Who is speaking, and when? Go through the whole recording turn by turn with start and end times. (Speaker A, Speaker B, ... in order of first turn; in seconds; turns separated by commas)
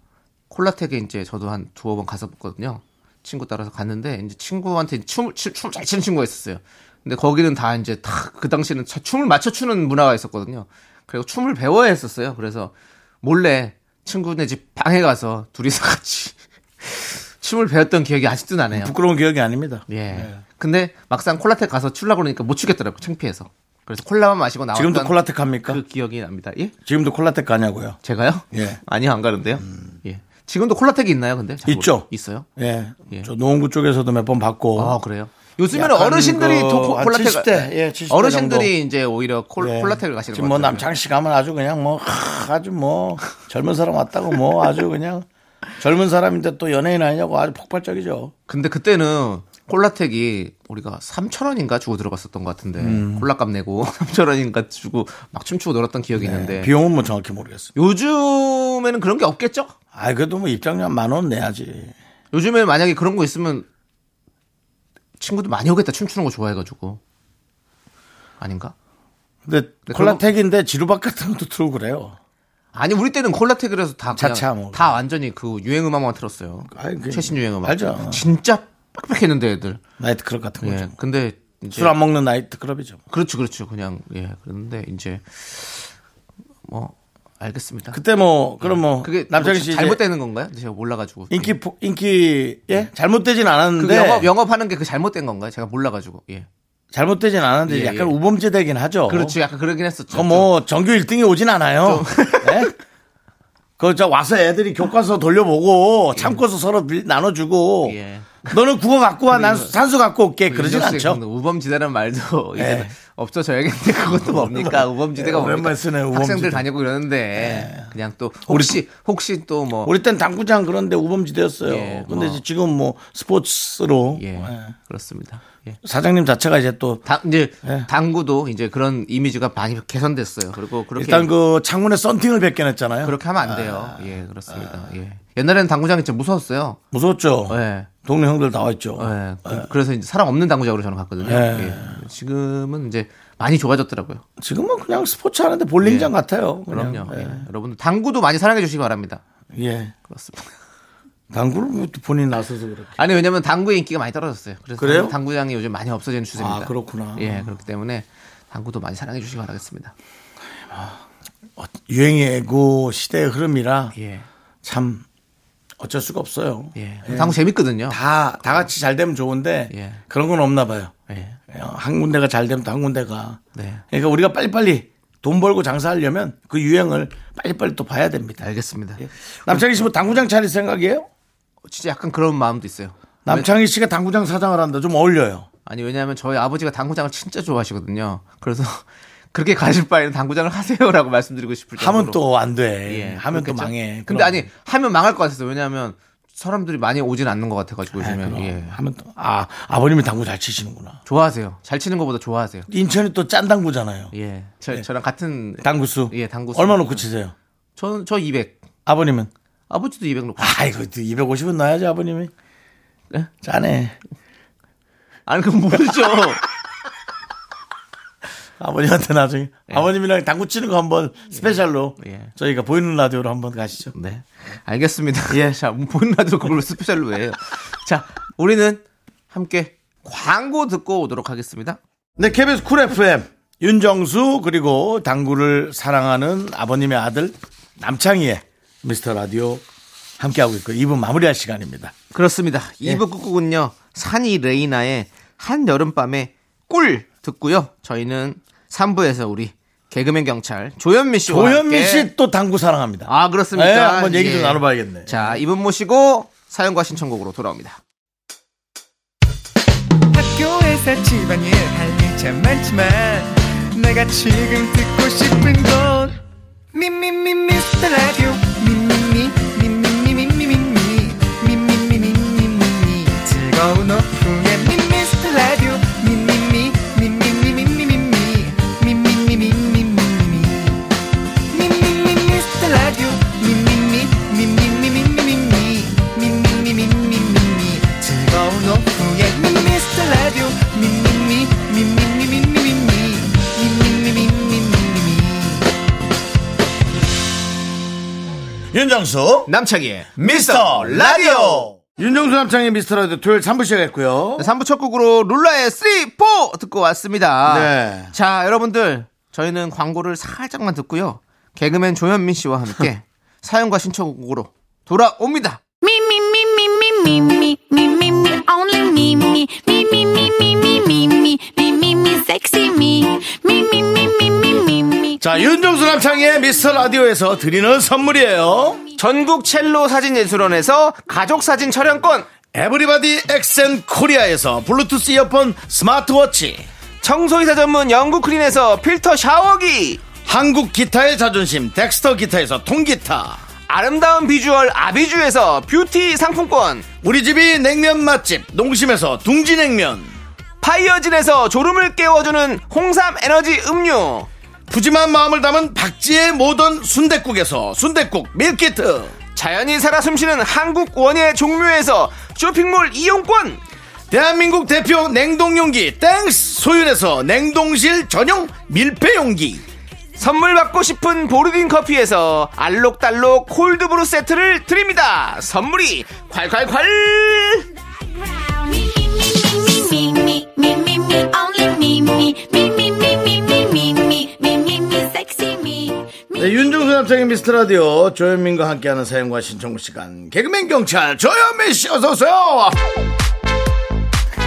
Speaker A: 0.5-18.9, Speaker B: 18.7-20.4, Speaker A: 19.9-26.7, Speaker B: 24.7-25.8, Speaker B: 26.9-28.0, Speaker A: 28.0-32.5, Speaker B: 28.5-28.8, Speaker B: 29.6-29.9, Speaker B: 31.6-35.0, Speaker A: 34.8-40.9, Speaker B: 35.7-38.7, Speaker B: 39.6-45.3, Speaker B: 45.8-48.3, Speaker A: 48.5-56.7, Speaker B: 52.8-53.3, Speaker B: 56.2-57.7, Speaker A: 57.8-59.7, Speaker B: 59.9-62.0, Speaker A: 62.3-63.7, Speaker A: 65.2-67.0, Speaker A: 68.4-68.7, Speaker B: 69.5-72.2, Speaker A: 69.9-70.2, Speaker A: 72.7-79.8, Speaker B: 74.1-74.9, Speaker B: 76.7-78.2, Speaker B: 80.0-80.9, Speaker A: 80.6-81.9, Speaker B: 81.7-83.0, Speaker A: 83.1-85.9, Speaker A: 86.7-88.0, Speaker B: 87.9-90.0, Speaker A: 88.6-91.6, Speaker B: 91.3-94.3, Speaker A: 93.8-96.5, Speaker B: 96.9-99.4, Speaker A: 97.7-98.1, Speaker A: 99.1-100.5, Speaker B: 100.1-102.7, Speaker A: 101.8-102.7, Speaker B: 103.8-111.2, Speaker A: 107.8-108.6, Speaker A: 109.3-109.7, Speaker A: 110.5-119.9, Speaker B: 112.6-112.9, Speaker B: 114.0-116.7, Speaker B: 117.4-117.9, Speaker B: 118.5-118.8, Speaker B: 119.8-124.7, Speaker A: 121.7-122.4, Speaker A: 124.2-125.8, Speaker B: 125.8-127.0, Speaker A: 127.0-131.3, Speaker B: 131.0-134.0, Speaker A: 133.0-136.8, Speaker B: 136.9-139.7, Speaker A: 137.5-137.9, Speaker A: 139.0-144.2, Speaker B: 141.2-142.0, Speaker B: 144.4-147.5, Speaker A: 145.8-146.1, Speaker A: 146.7-149.2, Speaker B: 149.5-149.9, Speaker A: 150.1-150.5, Speaker B: 151.3-153.0, Speaker A: 153.0-159.9, Speaker B: 154.8-155.2, Speaker B: 156.4-157.6, Speaker B: 160.7-161.0, Speaker B: 161.6-163.9, Speaker A: 163.9-164.3, Speaker B: 164.6-165.1, Speaker B: 165.8-167.4, Speaker A: 166.8-168.0, Speaker B: 167.9-170.9, Speaker A: 169.7-170.0, Speaker A: 171.1-171.4, Speaker B: 171.5-173.4, Speaker A: 173.6-173.8, Speaker B: 173.9-178.4, Speaker A: 178.4-179.7, Speaker B: 179.0-181.1, Speaker A: 181.7-183.5, Speaker B: 183.3-185.5, Speaker A: 185.7-192.2, Speaker B: 191.8-194.5, Speaker A: 192.9-198.8, Speaker B: 198.0-201.0, Speaker A: 201.1-202.7, Speaker B: 202.7-204.1, Speaker A: 204.1-207.0, Speaker B: 205.6-207.3, Speaker A: 207.8-208.6, Speaker B: 208.9-209.3, Speaker A: 209.7-210.6, Speaker B: 210.4-212.3, Speaker B: 213.4-214.0, Speaker A: 215.3-216.4, Speaker B: 218.6-223.9, Speaker A: 221.3-222.3, Speaker A: 223.9-231.8, Speaker B: 225.3-225.6, Speaker B: 232.2-239.6, Speaker B: 240.2-241.9, Speaker A: 242.1-252.1, Speaker B: 251.3-255.4, Speaker A: 253.1-257.8, Speaker C: 260.1-266.2, Speaker C: 266.7-280.9, Speaker C: 281.5-295.7, Speaker B: 298.7-299.5, Speaker A: 299.5-301.7, Speaker B: 300.2-304.5, Speaker A: 304.4-315.6, Speaker B: 307.5-308.1, Speaker D: 315.8-325.4, Speaker B: 325.2-328.8, Speaker A: 329.0-332.3, Speaker B: 332.5-336.7, Speaker A: 337.0-340.0, Speaker B: 340.2-343.4, Speaker A: 343.7-346.9, Speaker B: 347.0-350.1, Speaker A: 350.6-354.3, Speaker B: 354.7-359.1, Speaker A: 359.4-363.6, Speaker B: 364.1-369.6, Speaker A: 370.2-377.7, Speaker D: 378.5-386.6, Speaker B: 386.4-392.9